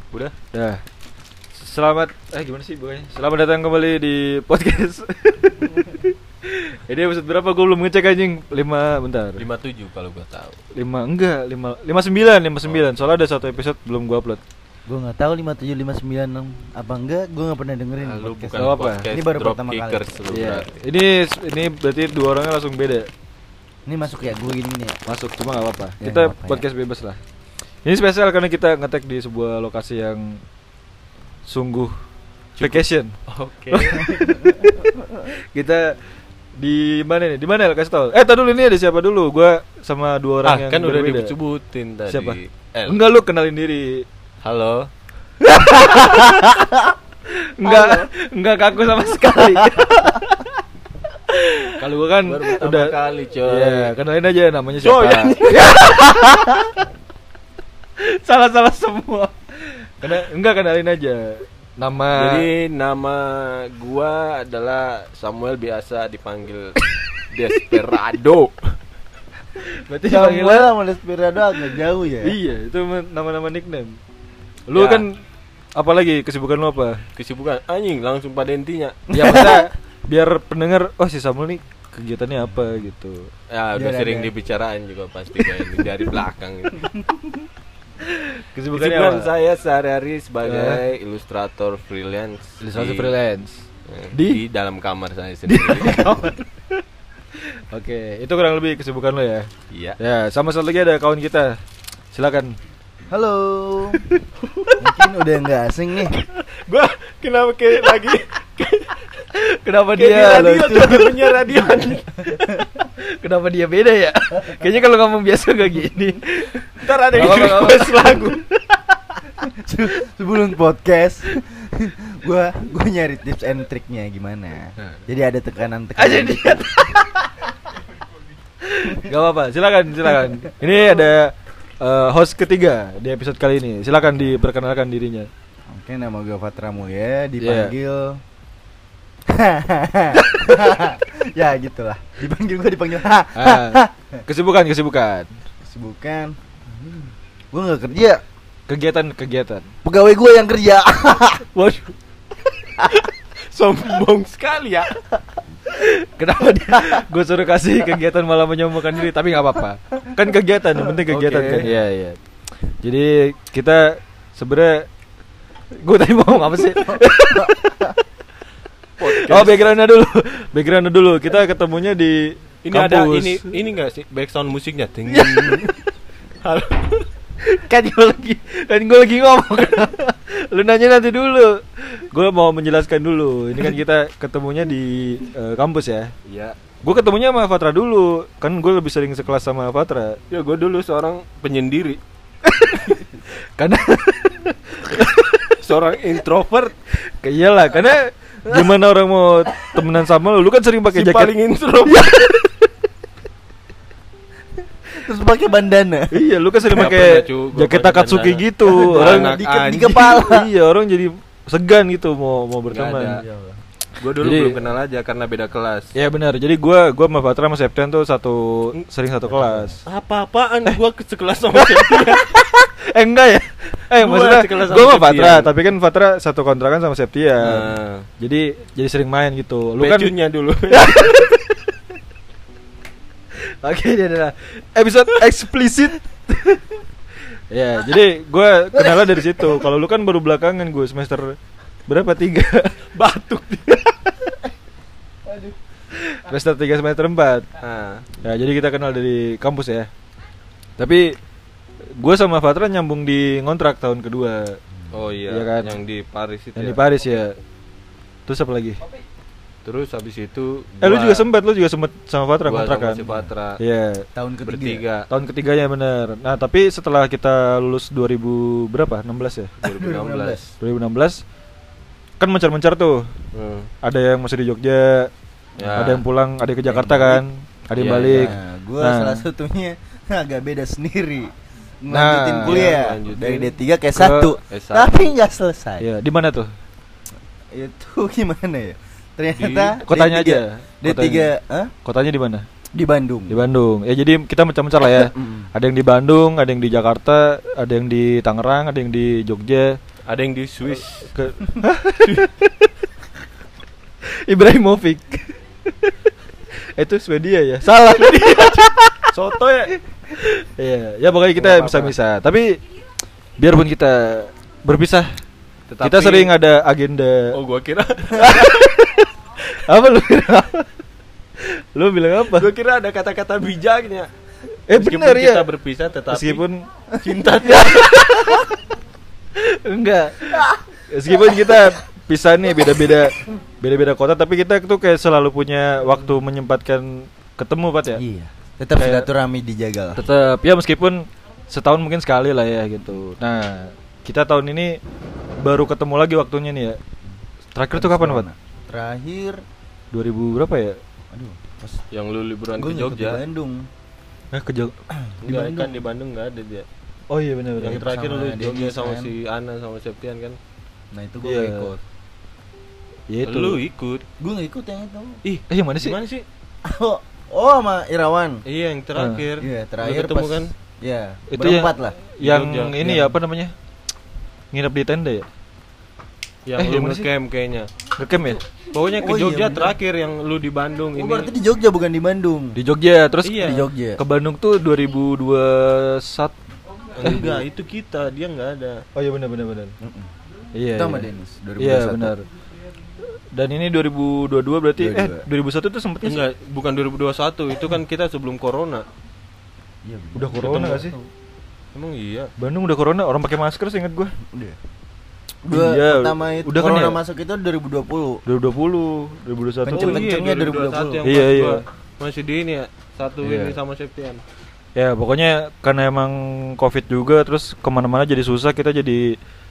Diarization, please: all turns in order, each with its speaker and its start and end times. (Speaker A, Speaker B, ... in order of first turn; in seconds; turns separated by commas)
Speaker A: 0.5-0.8, Speaker A: 1.6-9.4, Speaker B: 9.4-10.6, Speaker A: 10.7-14.4, Speaker C: 14.9-20.0, Speaker B: 18.0-20.7, Speaker A: 18.6-19.1, Speaker A: 20.3-23.1, Speaker C: 23.9-25.0, Speaker A: 25.1-27.2, Speaker C: 26.0-26.6, Speaker A: 27.9-30.4, Speaker A: 31.5-31.9, Speaker B: 32.6-34.1, Speaker A: 32.6-33.1, Speaker A: 33.7-36.0, Speaker C: 34.2-35.3, Speaker A: 36.6-41.3, Speaker B: 40.4-43.0, Speaker A: 42.1-44.1, Speaker B: 44.4-44.9, Speaker A: 45.4-46.6, Speaker C: 45.5-46.9, Speaker A: 47.3-50.4, Speaker C: 47.6-48.1, Speaker C: 49.4-50.1, Speaker A: 51.3-56.8, Speaker B: 52.2-53.9, Speaker B: 54.8-55.7, Speaker A: 58.0-62.5, Speaker B: 62.1-68.8, Speaker A: 69.6-70.7, Speaker C: 70.1-72.4, Speaker A: 72.2-74.0, Speaker A: 74.7-75.1, Speaker B: 74.7-75.0, Speaker A: 75.8-77.0, Speaker B: 77.2-79.0, Speaker C: 79.1-79.7, Speaker A: 79.1-83.3, Speaker B: 83.5-86.8, Speaker C: 83.8-84.3, Speaker C: 86.8-87.3, Speaker A: 88.0-89.3, Speaker B: 88.7-93.2, Speaker A: 90.5-90.8, Speaker A: 92.6-94.4, Speaker B: 93.9-96.2, Speaker A: 95.5-96.4, Speaker A: 97.7-99.5, Speaker B: 99.7-100.0, Speaker A: 100.0-101.6, Speaker A: 102.1-102.6, Speaker C: 103.1-104.2, Speaker B: 104.4-104.9, Speaker C: 104.8-106.2, Speaker B: 106.4-109.1, Speaker A: 109.3-111.2, Speaker B: 110.0-112.6, Speaker C: 110.9-112.7, Speaker A: 112.8-118.8, Speaker B: 116.8-118.4, Speaker C: 119.4-126.8, Speaker A: 126.0-127.3, Speaker A: 128.6-135.3, Speaker C: 135.7-138.2, Speaker A: 137.4-137.7, Speaker C: 139.3-144.2, Speaker A: 143.4-145.3, Speaker C: 145.6-148.2, Speaker A: 148.7-149.7, Speaker C: 149.8-151.5, Speaker A: 151.5-151.9, Speaker B: 152.9-155.0, Speaker A: 155.7-162.2, Speaker B: 161.1-161.7, Speaker A: 162.8-164.9, Speaker A: 165.8-167.8, Speaker B: 169.0-169.6, Speaker A: 169.0-173.5, Speaker B: 172.6-175.7, Speaker B: 176.4-177.1, Speaker A: 177.4-186.1, Speaker B: 186.3-186.6, Speaker A: 186.8-190.2, Speaker B: 190.3-192.0, Speaker A: 192.5-195.6, Speaker B: 195.6-196.8, Speaker A: 197.1-201.3, Speaker B: 200.9-202.5, Speaker C: 204.9-206.2, Speaker A: 206.1-209.4, Speaker B: 206.7-210.2, Speaker C: 208.8-210.5, Speaker A: 210.2-213.2, Speaker B: 212.7-213.2, Speaker C: 213.1-213.6, Speaker B: 214.0-215.9, Speaker A: 214.2-214.6, Speaker A: 215.9-219.8, Speaker B: 219.8-222.3, Speaker A: 221.5-230.1, Speaker B: 224.0-225.5, Speaker B: 227.4-228.1, Speaker B: 229.8-231.3, Speaker A: 230.7-231.6, Speaker A: 233.3-236.6, Speaker A: 237.5-242.8, Speaker C: 238.8-239.7, Speaker B: 242.9-243.9, Speaker C: 245.3-245.6, Speaker A: 245.9-247.5, Speaker B: 247.6-248.1, Speaker A: 248.2-249.9, Speaker A: 250.8-251.2, Speaker A: 252.0-254.6, Speaker B: 254.9-256.8, Speaker A: 255.3-255.8, Speaker A: 256.6-257.4, Speaker A: 258.3-258.8, Speaker B: 259.6-261.3, Speaker A: 260.8-263.1, Speaker B: 262.5-263.6, Speaker A: 263.6-264.1, Speaker C: 264.2-264.8, Speaker B: 264.4-265.1, Speaker A: 265.1-269.5, Speaker B: 269.6-270.5, Speaker C: 269.6-270.4, Speaker A: 270.6-271.2, Speaker A: 272.2-273.1, Speaker B: 273.3-273.7, Speaker A: 273.8-275.1, Speaker B: 275.6-276.0, Speaker A: 275.8-279.2, Speaker C: 276.7-277.2, Speaker B: 277.8-278.4, Speaker C: 278.0-285.9, Speaker A: 281.9-282.7, Speaker B: 282.4-283.6, Speaker A: 283.9-284.4, Speaker B: 284.4-284.9, Speaker A: 285.8-286.5, Speaker C: 287.5-291.7, Speaker B: 289.4-289.8, Speaker A: 289.9-291.3, Speaker A: 291.9-292.5, Speaker C: 292.7-293.4, Speaker A: 293.3-299.8, Speaker C: 294.9-295.5, Speaker B: 300.1-301.1, Speaker A: 301.1-302.7, Speaker B: 302.0-302.3, Speaker A: 304.0-305.9, Speaker A: 306.7-309.1, Speaker B: 307.7-309.7, Speaker A: 310.1-312.6, Speaker B: 311.4-311.9, Speaker A: 313.4-315.1, Speaker B: 315.7-316.3, Speaker A: 315.8-317.4, Speaker B: 317.3-318.5, Speaker A: 318.2-320.7, Speaker A: 321.4-322.5, Speaker B: 322.3-324.1, Speaker A: 324.7-325.5, Speaker B: 324.7-326.4, Speaker A: 326.1-326.7, Speaker B: 327.0-328.1, Speaker A: 327.4-328.5, Speaker A: 329.4-338.0, Speaker C: 338.0-340.0, Speaker A: 338.8-339.1, Speaker A: 339.9-344.8, Speaker A: 345.4-346.8, Speaker A: 347.6-348.3, Speaker C: 347.7-349.4, Speaker A: 349.9-350.8, Speaker C: 351.1-351.8, Speaker B: 351.9-353.2, Speaker C: 352.6-353.7, Speaker A: 354.3-354.8, Speaker C: 354.9-355.8, Speaker B: 355.2-356.7, Speaker A: 357.1-357.9, Speaker B: 357.6-360.4, Speaker C: 357.7-359.1, Speaker C: 360.9-361.8, Speaker A: 361.2-361.7, Speaker A: 363.1-363.6, Speaker B: 363.2-364.1, Speaker C: 364.2-365.2, Speaker B: 365.2-366.3, Speaker A: 365.5-366.0, Speaker C: 366.6-368.4, Speaker B: 368.4-370.5, Speaker A: 369.0-369.2, Speaker C: 369.4-372.0, Speaker A: 371.3-373.5, Speaker B: 372.2-373.1, Speaker A: 374.5-375.3, Speaker B: 376.5-377.7, Speaker A: 376.6-377.1, Speaker A: 378.0-378.4, Speaker B: 378.7-381.3, Speaker C: 379.0-379.7, Speaker C: 381.0-382.6, Speaker A: 382.6-386.4, Speaker B: 383.2-383.6, Speaker C: 383.4-384.0, Speaker B: 387.0-388.8, Speaker A: 387.0-387.4, Speaker A: 388.9-389.8, Speaker C: 389.8-390.1, Speaker A: 390.6-392.2, Speaker C: 390.7-392.1, Speaker A: 393.3-396.2, Speaker C: 394.8-395.2, Speaker B: 396.0-398.9, Speaker C: 399.9-401.1, Speaker A: 400.1-400.9, Speaker B: 401.7-402.3, Speaker A: 402.4-404.1, Speaker C: 404.3-404.6, Speaker C: 405.4-408.2, Speaker A: 405.5-407.0, Speaker A: 408.3-410.1, Speaker C: 409.7-411.0, Speaker B: 409.7-414.2, Speaker A: 411.0-411.6, Speaker A: 413.2-413.6, Speaker A: 414.8-419.2